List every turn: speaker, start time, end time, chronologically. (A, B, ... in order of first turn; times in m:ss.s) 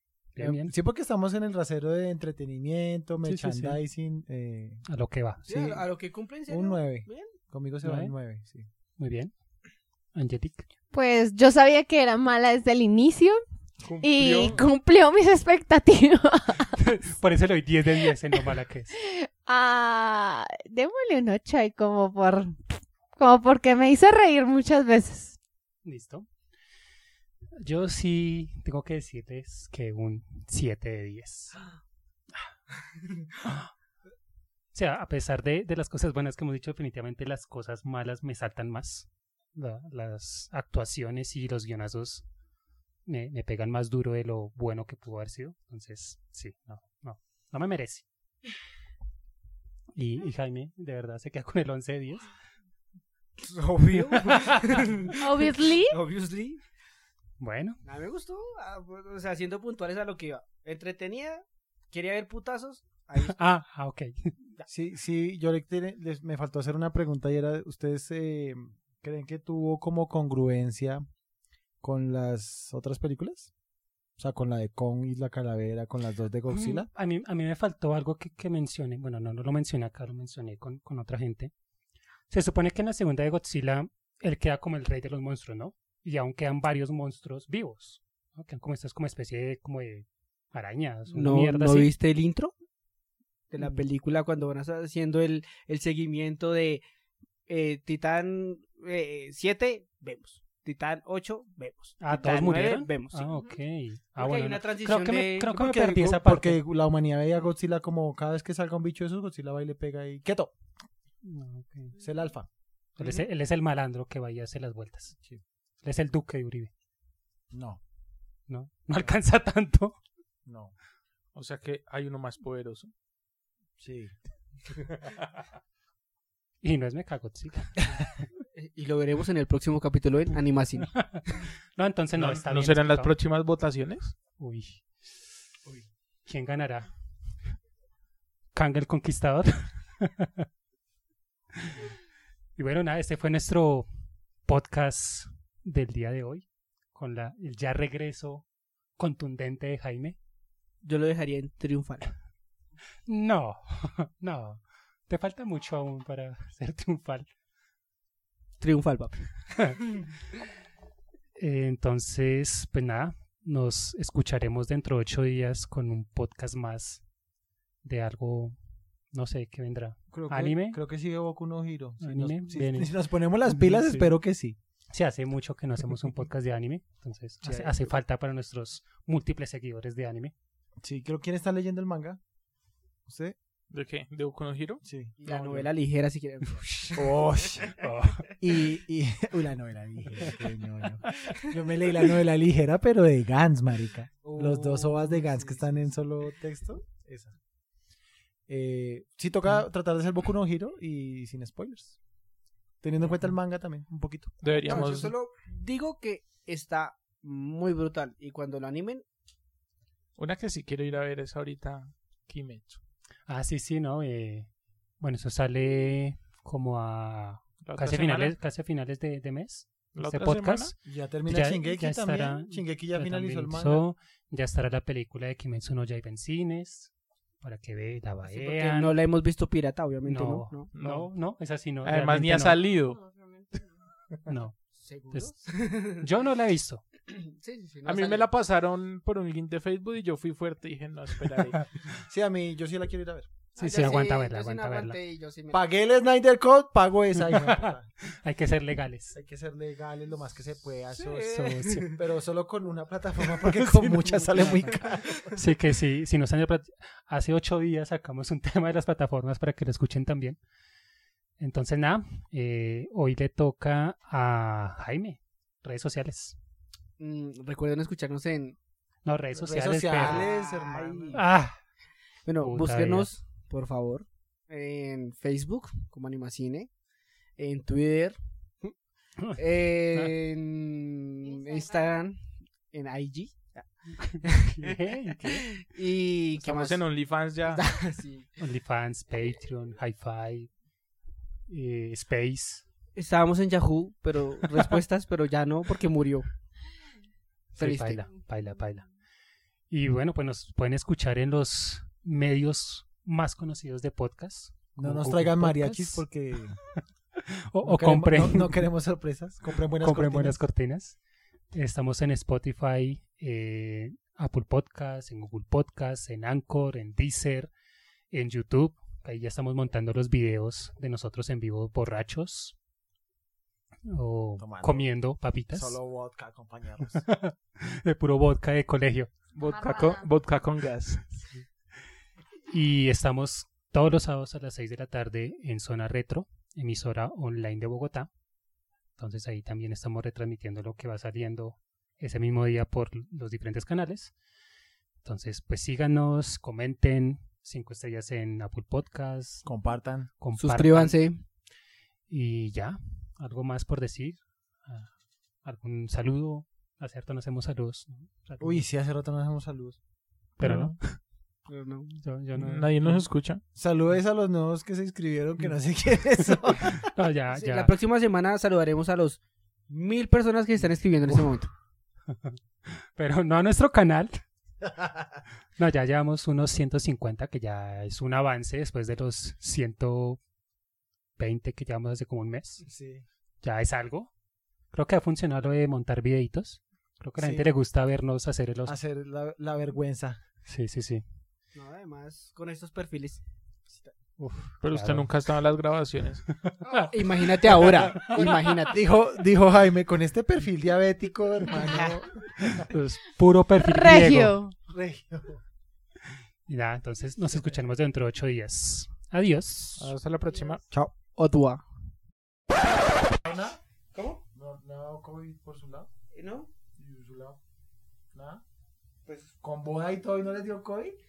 0:00.3-0:00.7 A
0:00.4-0:04.8 B
0:03.2-0:03.8 A
0:04.8-0:05.4 A
0:05.5-0:05.8 B
0:05.5-0:07.3 C
0:06.5-0:08.7 B
0:07.8-0:08.1 A
0:09.0-0:09.3 A
0:10.2-0:10.7 A
0:10.9-0:13.4 D
0:13.8-0:14.6 E
0:14.0-0:16.8 D
0:16.7-0:18.9 A
0:19.0-0:25.4 D
0:25.8-0:26.3 A
0:27.6-0:31.6 A
0:33.4-0:33.7 A
0:34.7-0:42.2 A
0:43.1-0:48.0 A
0:50.0-0:52.3 A
0:53.4-0:56.6 C
0:54.2-0:55.1 A
0:55.2-0:56.0 D
0:57.4-0:57.8 A
0:57.8-1:03.5 C
1:03.2-1:04.4 A
1:04.7-1:11.0 B
1:11.8-1:13.5 B
1:14.2-1:16.9 B
1:16.5-1:21.5 A
1:22.3-1:31.9 A
1:31.1-1:32.5 C
1:33.5-1:36.8 C
1:33.6-1:33.8 A
1:37.5-1:43.3 C
1:42.0-1:46.6 A
1:44.2-1:46.0 C
1:45.9-1:50.5 B
1:51.2-1:51.9 A
1:52.0-1:52.5 B
1:53.0-1:55.2 A
1:55.8-1:56.7 A
1:57.5-1:57.8 B
1:58.5-2:00.0 A
2:00.5-2:00.8 B
2:01.3-2:02.9 E
2:03.8-2:04.2 B
2:06.6-2:07.9 A
2:08.6-2:11.1 C
2:11.0-2:13.2 A
2:12.1-2:14.2 E
2:14.4-2:15.0 A
2:16.2-2:16.9 A
2:18.5-2:20.5 A
2:22.6-2:23.9 A
2:24.5-2:28.5 A
2:29.0-2:30.2 A
2:30.8-2:32.1 C
2:33.1-2:37.3 A
2:38.6-2:39.3 C
2:41.4-2:47.0 A
2:47.8-2:48.6 A
2:49.1-2:50.8 A
2:50.1-2:54.6 B
2:52.0-2:54.1 A
2:54.9-3:00.3 A
2:57.4-2:57.7 B
3:00.8-3:02.2 B
3:03.0-3:03.4 B
3:03.7-3:04.8 E
3:04.8-3:05.7 B
3:05.2-3:07.2 C
3:06.6-3:07.0 A
3:07.0-3:07.8 B
3:07.7-3:08.3 A
3:08.3-3:17.4 B
3:11.2-3:11.5 C
3:14.2-3:15.7 C
3:18.5-3:22.0 B
3:22.8-3:24.8 B
3:24.4-3:25.1 E
3:24.6-3:29.0 C
3:30.2-3:32.8 E
3:33.3-3:40.8 A
3:37.6-3:38.4 E
3:39.9-3:40.8 E
3:40.8-3:43.8 B
3:41.3-3:49.0 A
3:48.2-3:50.7 C
3:50.0-3:52.6 A
3:50.7-3:51.1 E
3:51.8-3:53.1 E
3:54.3-3:54.6 A
3:54.7-3:56.1 C
3:55.1-3:56.8 A
3:57.1-3:58.3 C
3:57.8-4:01.7 E
4:02.1-4:03.3 B
4:03.6-4:05.0 A
4:03.6-4:05.6 C
4:05.5-4:07.9 B
4:07.3-4:09.2 A
4:09.1-4:15.3 B
4:11.0-4:12.0 C
4:11.3-4:11.9 A
4:14.4-4:14.8 C
4:15.3-4:20.4 A
4:21.4-4:26.4 A
4:27.0-4:28.6 C
4:29.0-4:30.3 A
4:29.4-4:31.2 B
4:30.0-4:31.2 C
4:31.1-4:31.6 A
4:32.2-4:36.7 C
4:32.4-4:33.1 A
4:37.4-4:38.7 C
4:39.4-4:46.8 C
4:44.0-4:45.5 A
4:46.4-4:47.6 E
4:47.4-4:48.3 C
4:48.4-4:50.5 A
4:51.5-4:52.6 A
4:53.0-4:56.3 C
4:57.6-4:58.9 A
4:57.6-4:58.0 C
4:59.7-5:06.0 A
5:04.8-5:06.6 B
5:06.8-5:08.7 A
5:07.6-5:10.4 B
5:09.8-5:11.0 A
5:11.5-5:17.5 A
5:18.1-5:22.6 A
5:23.9-5:25.8 A
5:24.4-5:24.9 B
5:25.5-5:27.0 B
5:27.0-5:29.1 A
5:29.3-5:31.1 E
5:32.5-5:38.1 A
5:39.0-5:44.1 A
5:45.0-5:49.5 A
5:49.4-5:50.1 B
5:50.2-5:51.0 A
5:50.4-5:51.2 C
5:52.1-5:54.9 A
5:55.4-5:58.6 A
5:58.4-5:59.8 B
6:00.4-6:00.8 B
6:00.4-6:01.0 A
6:01.5-6:02.0 C
6:02.0-6:03.0 A
6:02.4-6:03.4 E
6:03.6-6:06.9 B
6:06.5-6:07.7 A
6:07.4-6:11.5 C
6:12.1-6:14.2 A
6:15.6-6:20.2 A
6:21.2-6:22.6 A
6:22.6-6:23.0 B
6:23.4-6:24.1 A
6:24.7-6:28.8 A
6:27.2-6:27.5 B
6:28.7-6:30.2 B
6:30.5-6:31.0 A
6:31.6-6:33.2 C
6:34.2-6:35.1 A
6:34.6-6:36.2 E
6:36.3-6:36.9 A
6:36.7-6:38.8 C
6:37.6-6:42.7 B
6:37.7-6:38.2 A
6:42.4-6:44.4 A
6:43.6-6:44.6 D
6:44.7-6:45.4 B
6:46.5-6:49.9 A
6:49.8-6:50.6 E
6:50.7-6:51.6 C
6:53.2-6:53.6 B
6:53.9-6:54.2 C
6:54.3-6:55.9 B
6:56.1-6:56.5 C
6:56.8-6:57.4 B
6:58.1-6:58.4 B
6:59.3-7:01.0 B